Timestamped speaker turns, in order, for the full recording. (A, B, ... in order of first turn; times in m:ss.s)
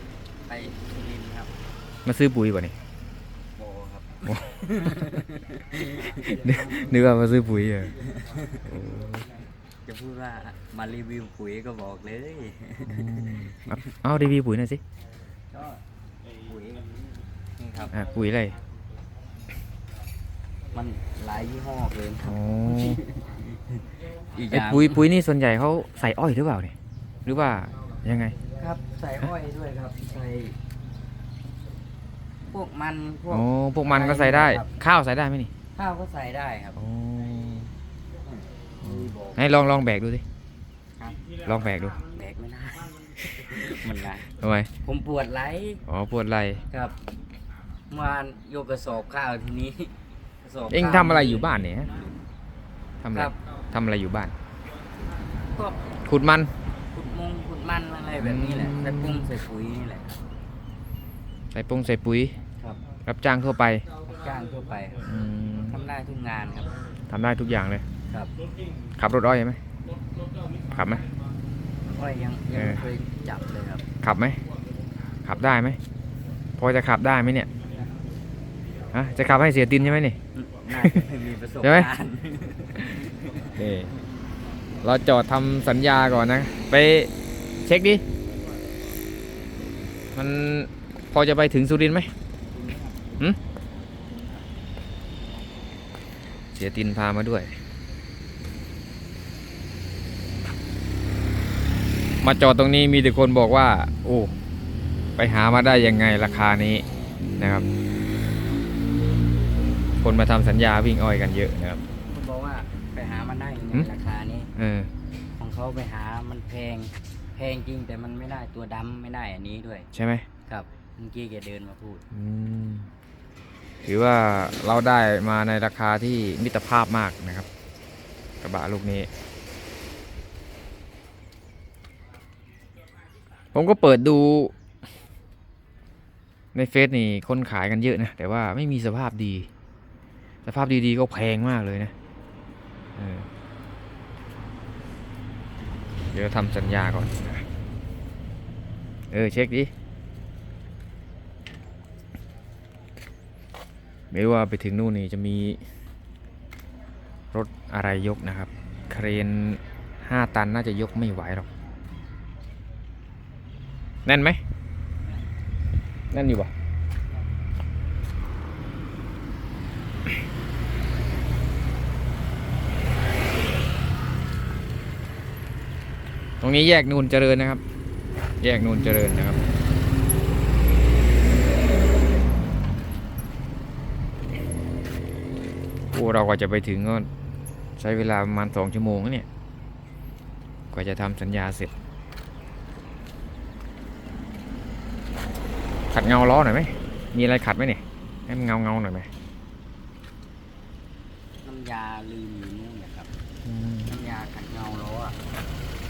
0:00.4-0:01.5 A
0:02.1-0:02.8 B
0:03.6-0:07.2 A
0:06.2-0:07.9 B
0:08.0-0:08.8 A
0:08.6-0:09.3 B
0:09.9-0:13.8 A
0:12.9-0:14.8 B
0:15.5-0:15.8 A
0:16.4-0:17.1 A
0:17.6-0:18.0 A
0:17.9-0:18.6 B
0:20.7-0:25.1 A
0:22.2-0:23.0 B
0:24.5-0:26.7 B
0:27.2-0:28.4 B
0:28.6-0:30.6 A
0:32.5-0:34.7 A
0:33.3-0:35.5 B
0:35.8-0:36.8 A
0:36.8-0:37.7 B
0:38.4-0:39.4 A
0:38.8-0:40.2 B
0:41.0-0:41.3 A
0:41.4-0:42.0 B
0:42.0-0:44.3 A
0:44.3-0:44.7 B
0:44.8-0:45.8 A
0:45.9-0:46.6 B
0:46.7-0:47.0 A
0:47.9-0:52.0 A
0:50.7-0:51.9 B
0:53.0-0:54.3 B
0:53.1-0:53.4 A
0:55.5-0:55.9 A
0:56.0-0:56.5 B
0:56.9-1:00.2 A
0:58.2-0:59.3 B
1:01.5-1:02.3 B
1:03.1-1:03.9 B
1:04.0-1:06.8 A
1:05.0-1:05.7 B
1:07.1-1:07.8 B
1:08.1-1:08.4 A
1:09.0-1:09.6 B
1:10.7-1:11.1 B
1:11.9-1:13.9 A
1:12.5-1:12.8 B
1:14.0-1:14.4 B
1:15.2-1:15.8 B
1:16.6-1:17.5 B
1:18.9-1:20.2 B
1:20.4-1:23.6 A
1:20.7-1:21.0 B
1:21.6-1:21.9 B
1:23.5-1:23.9 B
1:24.8-1:28.0 B
1:30.2-1:32.1 B
1:32.5-1:33.3 A
1:34.1-1:34.4 A
1:36.6-1:37.5 B
1:42.2-1:44.3 B
1:45.2-1:46.8 B
1:47.4-1:47.6 B
1:50.0-1:51.8 B
1:52.1-1:54.5 A
1:54.6-1:54.9 B
1:55.4-1:59.9 A
1:59.9-2:00.2 B
2:00.5-2:02.0 A
2:02.1-2:02.9 B
2:03.8-2:07.5 B
2:08.4-2:09.1 B
2:13.5-2:14.5 B
2:16.5-2:19.5 B
2:20.5-2:21.9 B
2:23.0-2:23.3 B
2:26.1-2:27.4 B
2:29.1-2:29.7 B
2:34.1-2:35.6 B
2:37.3-2:41.5 B
2:44.1-2:44.4 B
2:46.1-2:46.5 B
2:56.4-2:57.6 B
2:58.4-2:59.4 B
3:05.9-3:07.1 B
3:07.8-3:09.3 B
3:10.7-3:11.7 B
3:15.9-3:19.1 B
3:21.4-3:23.1 A
3:23.4-3:23.9 B
3:23.9-3:25.2 A